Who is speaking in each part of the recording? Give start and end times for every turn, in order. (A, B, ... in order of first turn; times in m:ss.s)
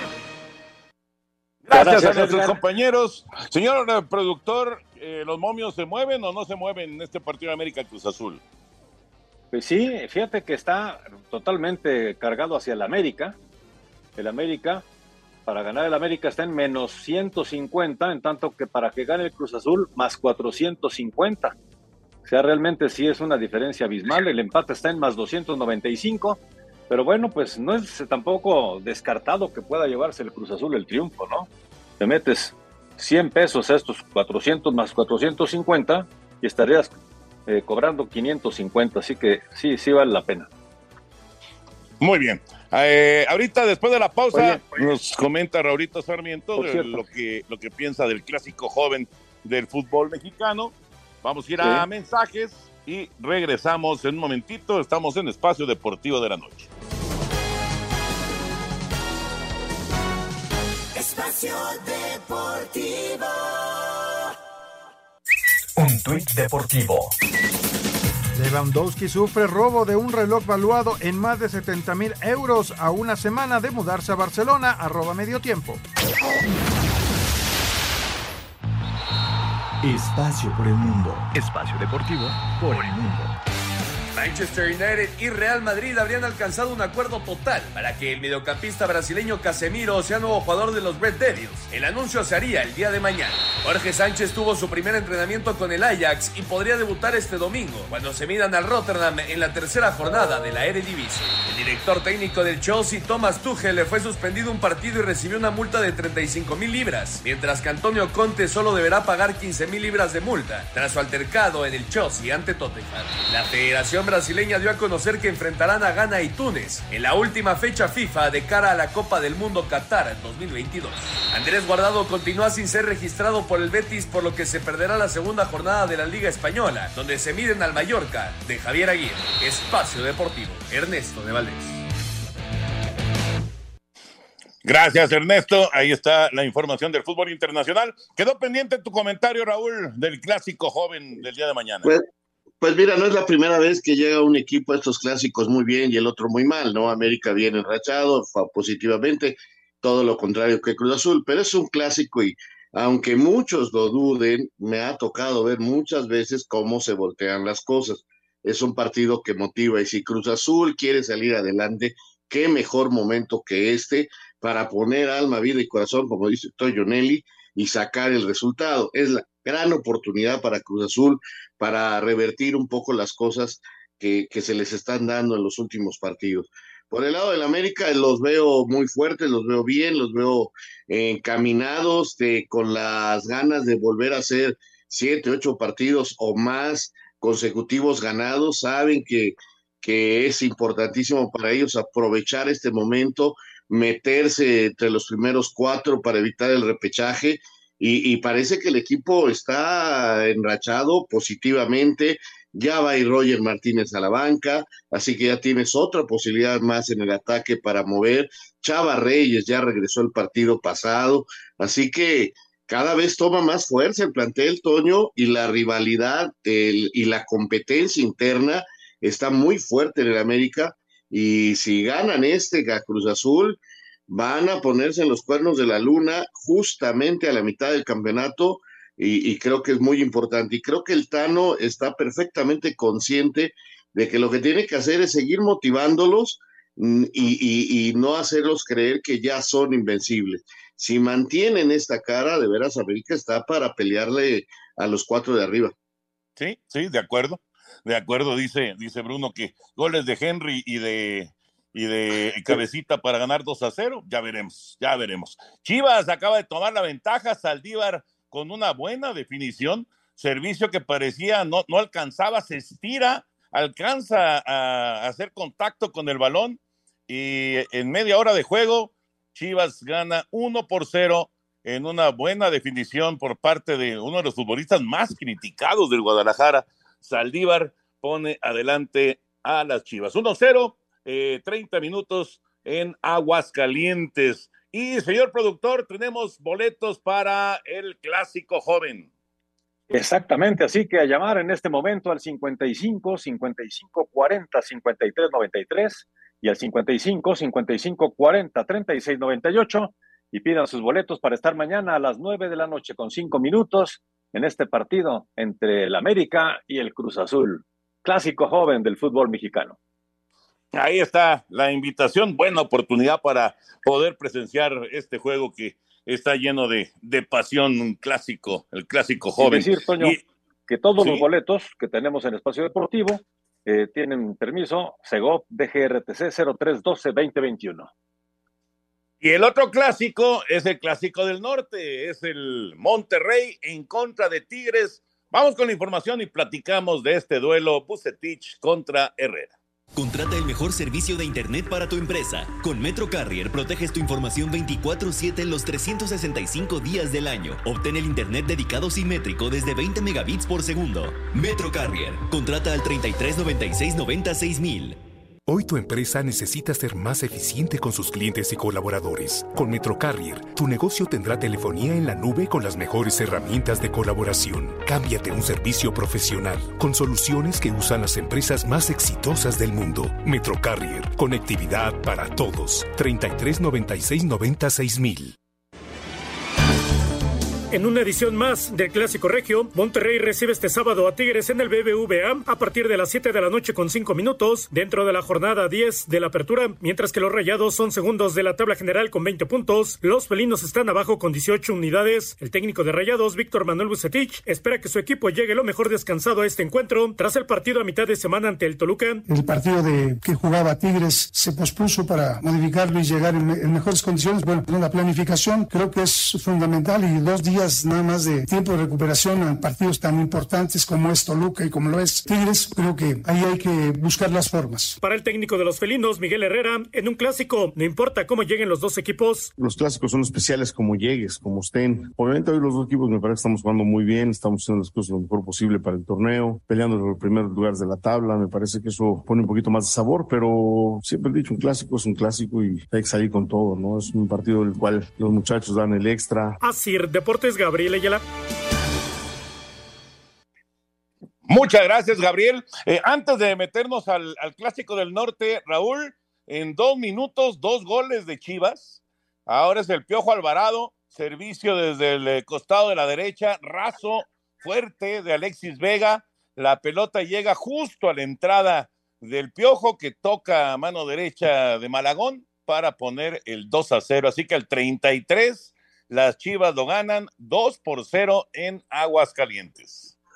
0:01.7-0:08.4 A
0:01.7-0:02.6 B
0:09.5-0:13.4 B
0:14.2-0:14.8 B
0:15.5-0:21.6 B
0:22.2-0:31.5 B
0:32.0-0:36.9 B
0:37.5-0:40.5 B
0:42.0-0:56.7 A
0:44.3-0:45.0 B
0:46.6-0:47.0 B
0:51.6-0:51.9 B
1:05.8-1:07.1 C
1:08.4-1:15.8 D
1:19.8-1:23.3 E
1:24.2-2:11.8 F
2:14.6-2:21.9 A
2:22.6-4:05.7 G
4:06.4-4:49.1 A
4:49.9-5:09.8 B
5:10.7-5:20.2 A
5:19.3-5:27.9 B
5:21.0-5:21.3 A
5:29.2-5:39.5 A
5:40.0-5:55.0 H
5:55.5-6:15.4 C
6:17.7-6:39.2 I
6:39.3-6:55.0 J
6:55.0-6:59.5 I
6:59.6-7:16.6 K
7:16.6-7:18.2 I
7:21.5-7:50.1 A